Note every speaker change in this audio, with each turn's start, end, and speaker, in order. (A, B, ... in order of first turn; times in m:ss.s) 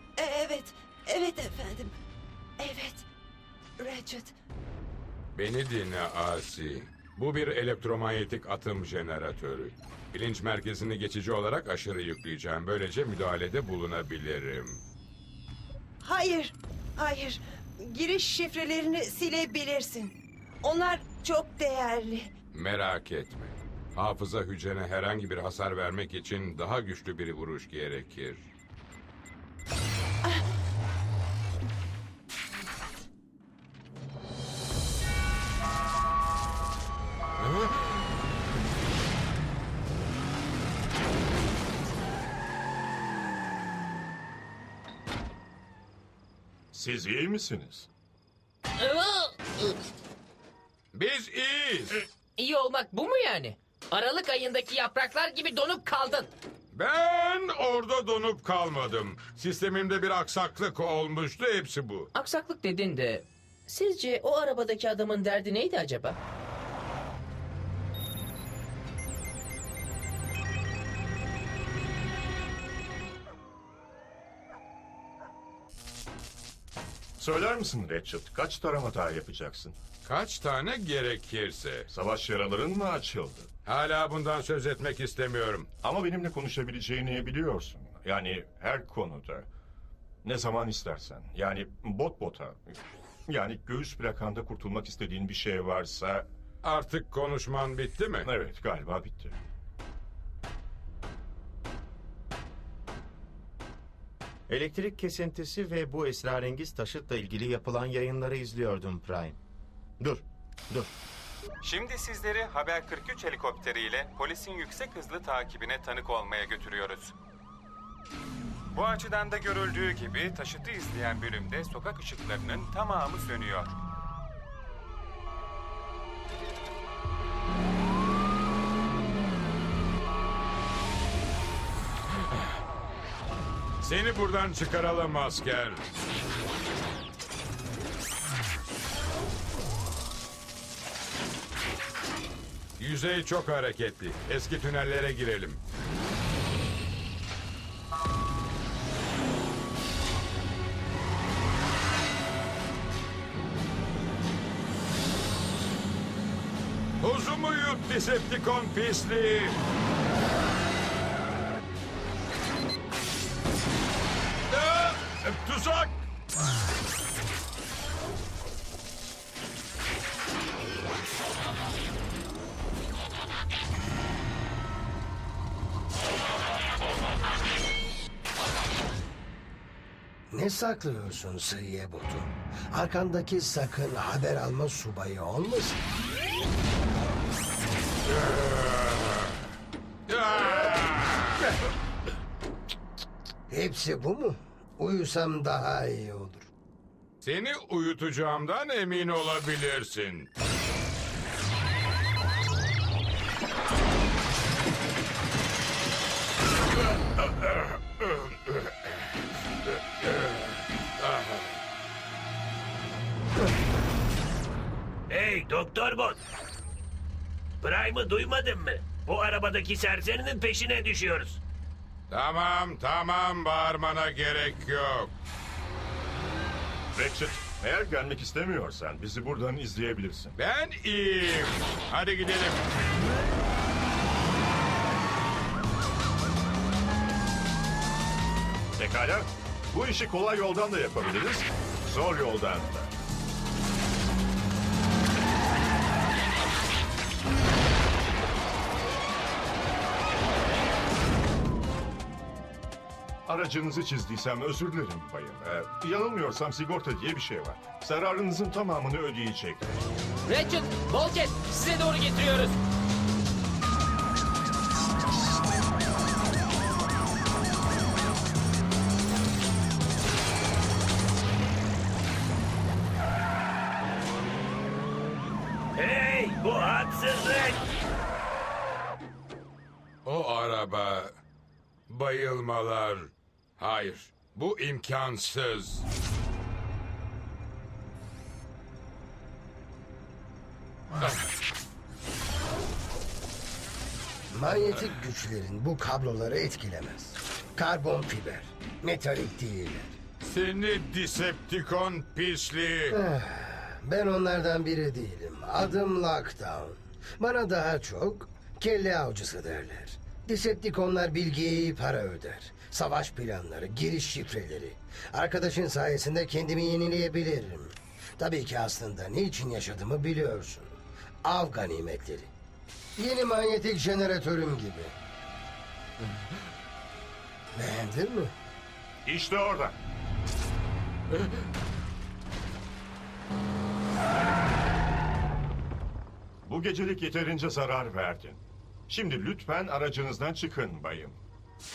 0:00.2-0:01.9 A
0:02.6-0:03.0 A
0:03.8-0:04.3 A
0:05.4-0:14.8 B
0:16.0-0:22.3 A
0:22.5-0:28.4 B
0:46.7-0:47.9 C
0:48.8-0:49.8 D
0:50.9-0:52.0 B
0:52.4-0:56.3 D
0:56.7-1:02.1 B
1:02.1-1:06.2 D
1:17.2-1:19.8 C
1:20.0-1:21.9 B
1:21.9-1:23.5 C
1:23.6-1:25.7 B
1:25.8-1:29.5 C
1:30.2-1:36.3 C
1:36.6-1:38.3 B
1:38.2-1:39.4 C
1:44.5-1:49.4 E
1:50.0-1:50.9 E
1:51.6-1:57.1 F
1:58.7-2:03.7 F
2:13.8-2:15.8 B
2:22.8-2:25.6 B
2:37.0-2:39.6 B
2:44.5-2:46.0 B
3:00.3-3:05.8 G
3:08.1-3:09.4 B
3:10.1-3:11.4 B
3:13.5-3:16.5 G
3:17.2-3:20.3 B
3:27.2-3:28.7 B
3:31.0-3:31.4 B
3:35.1-3:36.2 H
3:37.6-3:41.4 H
3:42.1-3:45.1 B
3:46.9-3:50.4 C
3:50.4-3:52.6 B
3:58.8-4:02.9 C
4:13.3-4:19.8 C
4:20.3-4:22.6 D
4:35.8-4:37.6 H
4:40.0-4:41.1 B
4:41.9-4:45.8 B
4:54.3-5:00.0 G
5:00.2-5:03.0 B
5:02.9-5:22.3 G
5:23.0-5:25.0 G
5:27.6-5:28.3 G
5:29.0-5:29.8 C
5:36.4-5:41.2 C